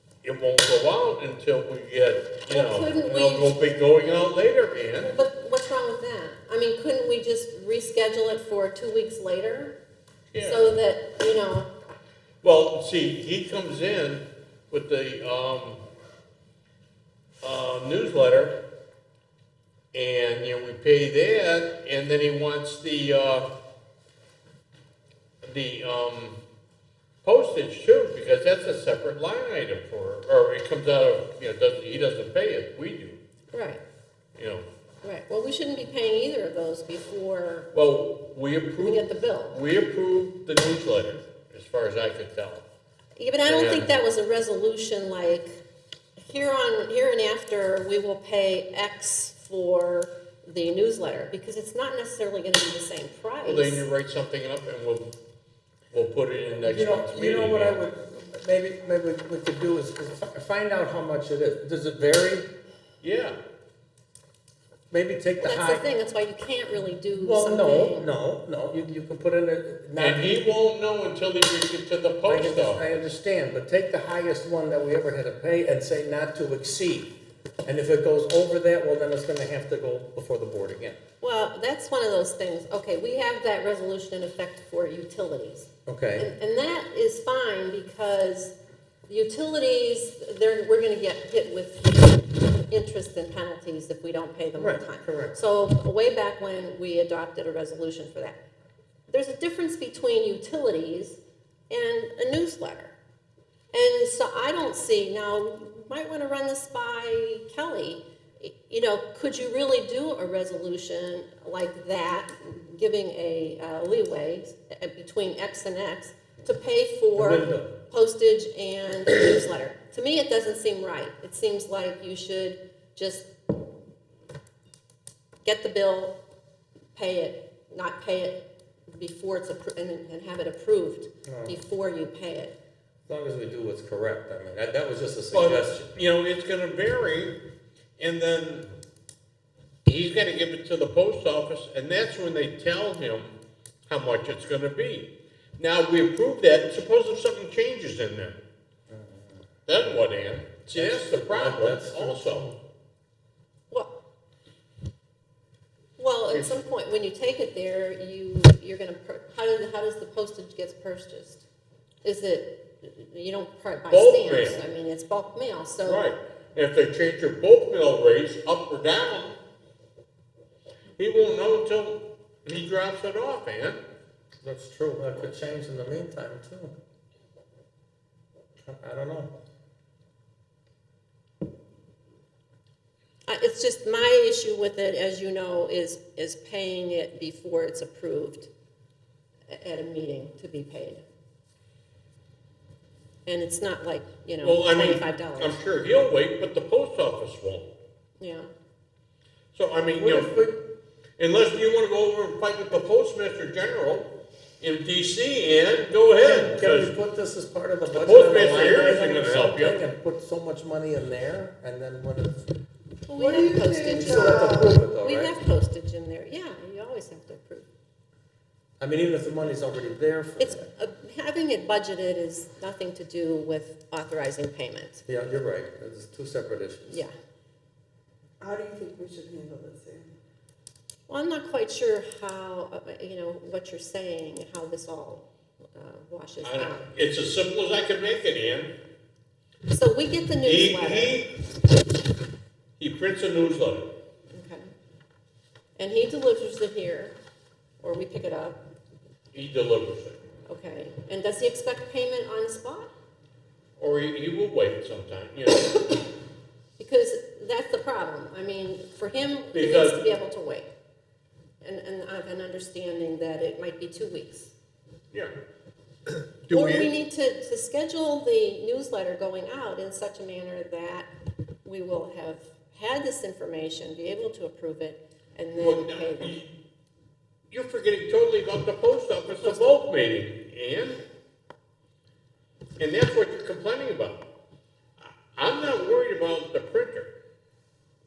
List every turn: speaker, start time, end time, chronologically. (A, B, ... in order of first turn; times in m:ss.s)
0:00.2-0:05.2 A
0:02.5-0:03.6 B
0:05.0-0:09.8 B
0:10.3-0:10.7 A
0:10.4-0:11.7 B
0:12.4-0:15.8 A
0:17.4-0:18.6 A
0:19.9-0:23.5 A
0:25.4-0:26.4 A
0:27.2-0:33.2 A
0:33.5-0:33.8 B
0:34.4-0:34.6 A
0:35.0-0:37.7 B
0:37.7-0:42.7 A
0:38.8-0:39.6 B
0:43.2-0:45.6 B
0:43.4-0:43.9 A
0:46.3-0:53.8 B
0:53.4-0:55.1 A
0:55.9-0:57.8 A
0:56.6-1:02.5 C
1:03.0-1:03.4 A
1:04.9-1:05.9 C
1:05.4-1:08.1 B
1:07.1-1:10.4 C
1:10.0-1:13.1 A
1:12.3-1:17.1 C
1:17.6-1:21.0 C
1:21.2-1:28.6 B
1:25.9-1:26.3 C
1:29.1-1:38.4 B
1:34.6-1:35.3 C
1:39.1-1:42.9 B
1:43.7-2:03.3 B
1:57.2-1:57.8 C
2:05.4-2:06.2 B
2:07.0-2:12.6 B
2:11.3-2:11.6 C
2:13.1-2:15.8 C
2:15.3-2:17.4 A
2:18.0-2:18.7 A
2:19.8-2:23.4 A
2:23.9-2:28.4 A
2:28.9-2:29.4 C
2:29.7-2:32.5 A
2:30.7-2:32.6 C
2:33.7-2:34.0 B
2:36.0-2:41.4 B
2:42.0-2:46.0 B
2:43.9-2:44.6 A
2:45.8-2:49.4 A
2:51.0-2:53.8 A
2:54.4-2:56.7 C
2:58.7-2:59.4 C
3:03.3-3:08.5 B
3:09.5-3:11.0 B
3:13.3-3:15.6 B
3:14.4-3:17.8 A
3:18.2-3:18.5 B
3:19.5-3:20.6 A
3:20.0-3:20.6 C
3:21.2-3:27.0 A
3:26.2-3:32.5 C
3:27.9-3:29.8 A
3:33.1-3:37.7 B
3:33.1-3:34.8 D
3:33.8-3:35.3 C
3:38.8-3:40.7 C
3:40.4-3:45.0 B
3:45.1-3:47.0 C
3:46.9-3:47.1 B
3:48.4-3:50.1 D
3:51.1-3:55.2 B
3:55.8-3:56.9 B
3:56.4-3:58.8 A
3:59.7-4:01.2 B
4:00.4-4:01.4 A
4:02.8-4:03.9 A
4:04.3-4:04.7 B
4:05.8-4:07.2 B
4:07.8-4:08.6 B
4:09.3-4:10.2 A
4:10.5-4:12.9 B
4:13.8-4:16.1 A
4:16.8-4:20.7 B
4:19.5-4:20.0 A
4:21.6-4:24.5 B
4:26.5-4:26.9 A
4:26.5-4:31.1 B
4:31.6-4:36.4 B
4:35.6-4:36.5 A
4:37.5-4:41.0 A
4:39.4-4:39.8 B
4:42.8-4:44.3 A
4:45.0-4:47.1 A